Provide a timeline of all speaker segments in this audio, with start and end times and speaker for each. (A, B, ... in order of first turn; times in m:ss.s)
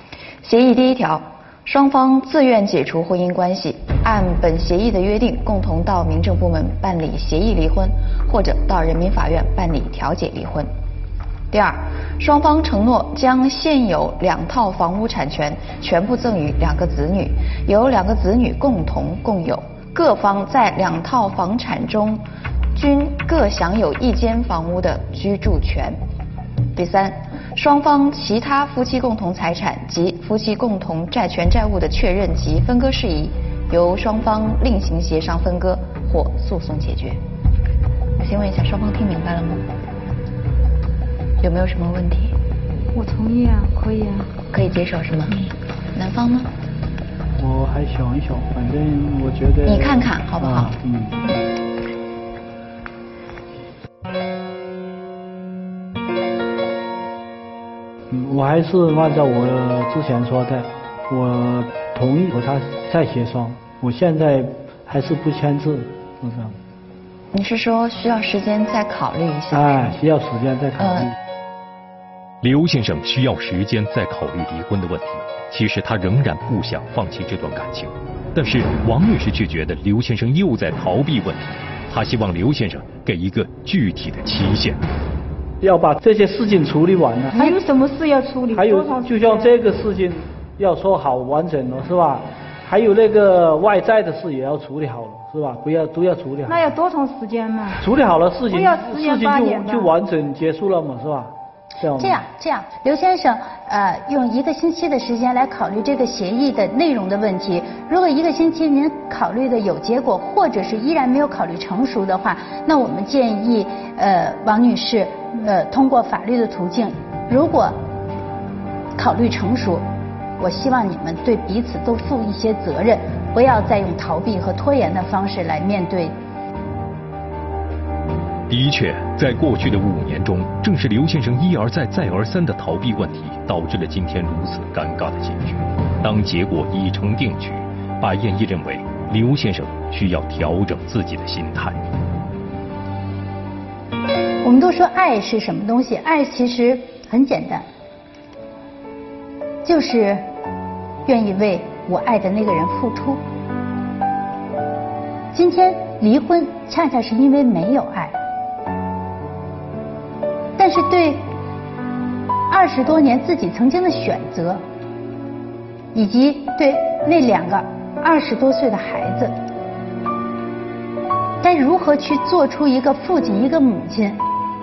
0:00.4-0:10.7 A
0:11.5-0:22.2 A
0:22.7-0:26.0 A
0:26.8-0:37.2 A
0:38.2-0:39.6 A
0:41.4-0:42.3 A
0:42.9-0:44.3 B
0:44.5-0:46.5 A
0:47.4-0:51.2 C
0:49.6-0:50.8 A
0:58.1-1:06.6 C
1:07.3-1:10.0 A
1:09.5-1:11.1 C
1:10.8-1:11.1 A
1:12.4-1:24.8 D
1:25.6-1:27.5 C
1:27.3-1:29.5 B
1:28.5-1:36.7 C
1:36.4-1:37.8 B
1:37.8-1:42.2 C
1:38.5-1:39.9 B
1:42.0-1:57.8 E
1:59.0-1:59.8 E
2:00.4-2:06.1 E
2:08.5-2:21.8 D
2:24.4-2:27.6 E
2:29.6-2:30.2 E
2:31.0-2:33.2 E
2:35.3-2:38.2 E
2:40.6-2:41.2 E
2:42.5-2:44.6 E
2:45.9-2:49.3 E
2:51.4-2:54.2 E